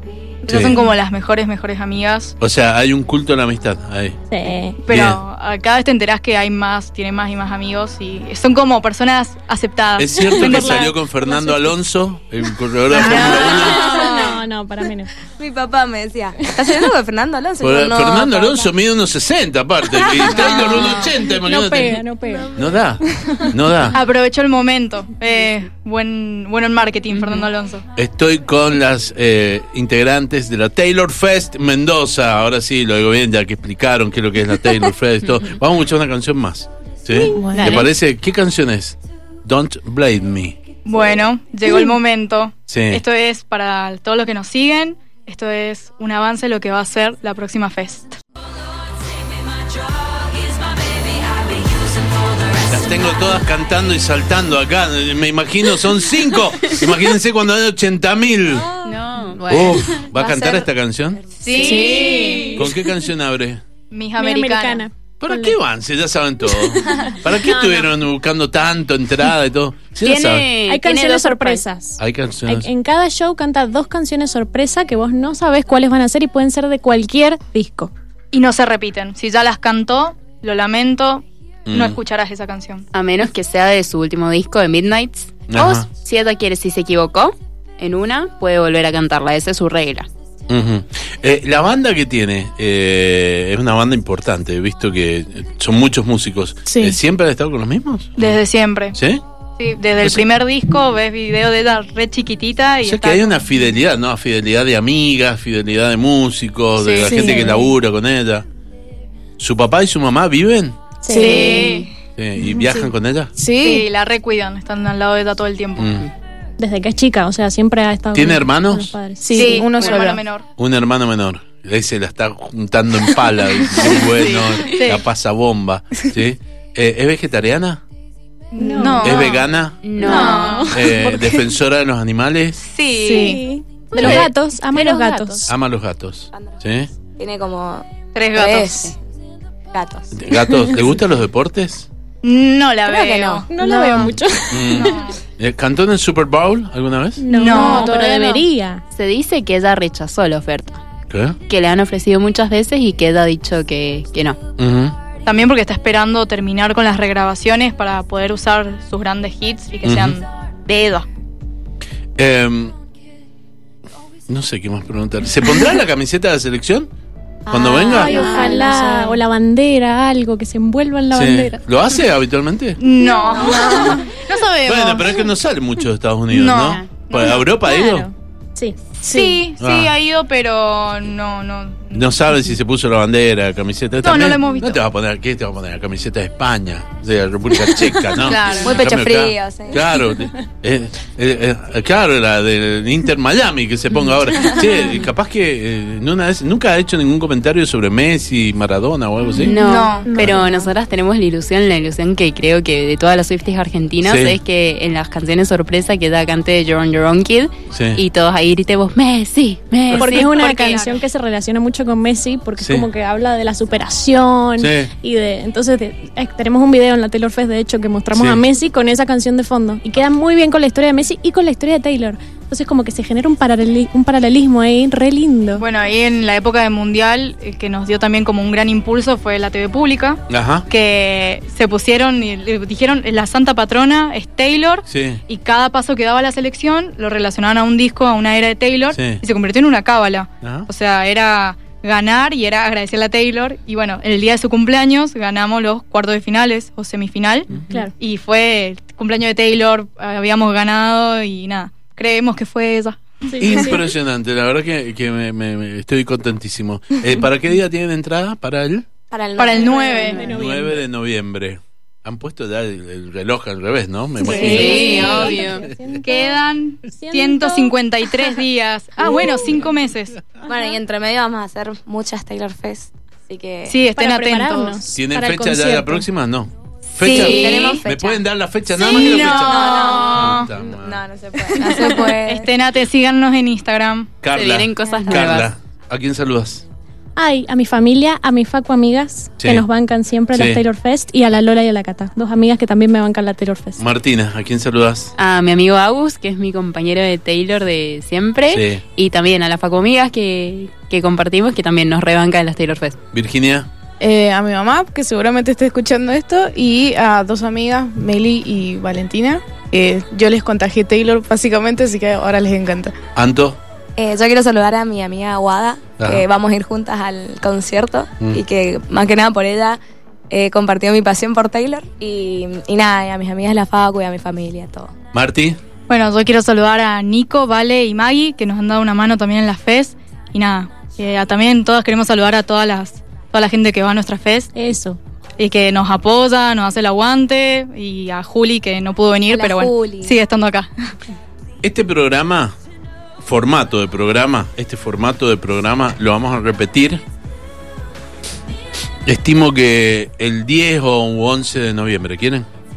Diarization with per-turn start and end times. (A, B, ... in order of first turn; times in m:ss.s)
0:00.4-0:02.4 A
0:00.5-0:00.8 B
0:02.4-0:04.2 B
0:04.3-0:04.8 C
0:04.8-0:10.9 A
0:04.9-0:05.2 B
0:10.0-0:14.3 B
0:10.2-0:11.7 C
0:12.9-0:14.4 A
0:13.0-0:15.1 C
0:15.4-0:18.7 D
0:17.6-0:22.0 B
0:20.1-0:23.5 C
0:20.3-0:21.1 A
0:22.5-0:24.0 B
0:23.9-0:27.8 A
0:28.0-0:40.6 B
0:37.1-0:37.6 C
0:37.3-0:37.9 E
0:37.5-0:37.9 F
0:40.8-0:48.2 A
0:42.7-0:43.0 B
0:52.5-0:58.7 B
0:58.8-1:00.6 F
0:59.5-1:01.3 B
0:59.5-0:59.8 E
1:01.4-1:02.6 A
1:01.5-1:02.5 F
1:01.5-1:02.6 E
1:02.2-1:02.5 C
1:02.5-1:03.6 B
1:03.9-1:04.9 A
1:04.2-1:05.6 C
1:05.2-1:10.5 B
1:06.6-1:07.9 C
1:10.0-1:11.7 F
1:10.7-1:17.9 C
1:12.0-1:12.7 B
1:18.3-1:22.8 A
1:21.7-1:22.0 B
1:22.9-1:30.1 F
1:25.5-1:25.9 B
1:30.5-1:38.4 B
1:36.7-1:37.0 E
1:38.2-1:39.0 A
1:38.9-1:39.2 B
1:39.6-1:43.4 A
1:42.8-1:48.4 B
1:46.8-1:47.5 A
1:47.0-1:47.7 C
1:47.3-1:47.5 E
1:49.4-1:50.8 B
1:51.0-1:51.7 C
1:51.1-1:51.9 E
1:51.1-1:51.9 A
1:51.5-1:51.9 F
1:52.1-1:53.3 B
1:52.5-1:53.9 E
1:53.6-1:56.0 A
1:55.8-1:56.1 B
1:56.6-2:00.0 C
1:58.1-1:58.9 B
1:59.2-2:00.2 E
1:59.3-2:00.4 A
2:00.6-2:07.8 B
2:03.8-2:05.0 A
2:04.1-2:04.6 F
2:08.5-2:09.4 A
2:08.6-2:09.4 C
2:08.6-2:08.9 E
2:09.0-2:10.0 B
2:09.8-2:10.7 F
2:10.0-2:10.8 A
2:10.1-2:11.5 C
2:10.7-2:12.6 B
2:12.6-2:15.4 A
2:12.9-2:13.4 E
2:13.1-2:15.5 C
2:14.0-2:14.3 B
2:15.5-2:16.9 B
2:17.2-2:18.9 D
2:18.1-2:18.9 A
2:19.7-2:20.2 D
2:20.1-2:21.9 B
2:20.5-2:20.8 C
2:22.2-2:24.1 A
2:22.8-2:25.1 C
2:23.6-2:24.2 F
2:24.0-2:27.2 B
2:24.7-2:25.2 A
2:27.2-2:28.8 C
2:27.3-2:28.0 A
2:27.3-2:28.4 E
2:28.9-2:30.8 F
2:31.1-2:31.4 B
2:31.5-2:34.4 F
2:34.6-2:35.0 B
2:35.2-2:40.3 A
2:39.8-2:40.2 B
2:40.7-2:41.0 F
2:42.2-2:42.7 B
2:44.3-2:46.9 B
2:47.5-2:48.4 B
2:47.5-2:48.7 D
2:47.8-2:51.6 C
2:47.9-2:49.1 E
2:48.3-2:48.6 A
2:51.1-2:52.8 B
2:52.8-2:54.9 A
2:53.0-2:55.1 E
2:54.6-2:58.1 B
2:56.3-2:57.4 A
2:57.4-2:58.8 C
2:59.0-3:02.3 A
2:59.0-2:59.4 E
2:59.6-2:59.9 B
3:01.9-3:19.6 B
3:04.0-3:04.8 A
3:08.1-3:08.8 A
3:08.6-3:10.0 D
3:19.3-3:30.4 F
3:19.5-3:20.1 A
3:20.0-3:20.7 C
3:20.2-3:20.4 B
3:24.0-3:24.4 B
3:27.7-3:28.0 B
3:29.9-3:31.0 A
3:29.9-3:45.6 C
3:32.6-3:32.9 B
3:34.6-3:34.9 B
3:38.1-3:38.4 B
3:45.6-4:13.2 A
3:50.3-3:50.7 B
3:54.9-3:55.2 B
3:58.9-3:59.2 B
4:00.4-4:00.7 B
4:07.7-4:07.9 C
4:13.3-4:13.8 C
4:13.4-4:18.9 B
4:19.1-4:20.2 D
4:19.4-4:20.2 A
4:20.1-4:20.8 C
4:20.2-4:26.0 B
4:24.2-4:25.2 D
4:24.3-4:25.7 F
4:24.3-4:25.0 A
4:24.4-4:26.4 C
4:26.0-4:30.2 A
4:26.9-4:27.7 C
4:30.4-4:33.8 D
4:33.6-4:34.8 A
4:33.9-4:36.0 C
4:34.9-4:41.0 B
4:37.0-4:37.8 A
4:37.0-4:38.2 D
4:38.8-4:40.5 A
4:38.8-4:42.5 D
4:41.5-4:44.1 A
4:44.2-4:46.6 B
4:44.3-4:45.5 F
4:47.2-4:53.8 C
4:49.4-4:49.6 B
4:50.3-4:50.6 B
4:53.8-4:55.1 B
4:55.2-5:03.0 F
4:58.5-4:58.8 B
5:03.1-5:03.7 B
5:04.0-5:13.0 E
5:13.2-5:13.6 B
5:14.0-5:24.9 D
5:16.0-5:16.2 B
5:25.1-5:25.6 B
5:25.9-5:34.5 A
5:34.5-5:35.0 C
5:35.4-5:40.9 A
5:39.3-5:40.2 D
5:41.6-5:42.6 B
5:43.2-5:47.0 B
5:49.0-5:52.5 B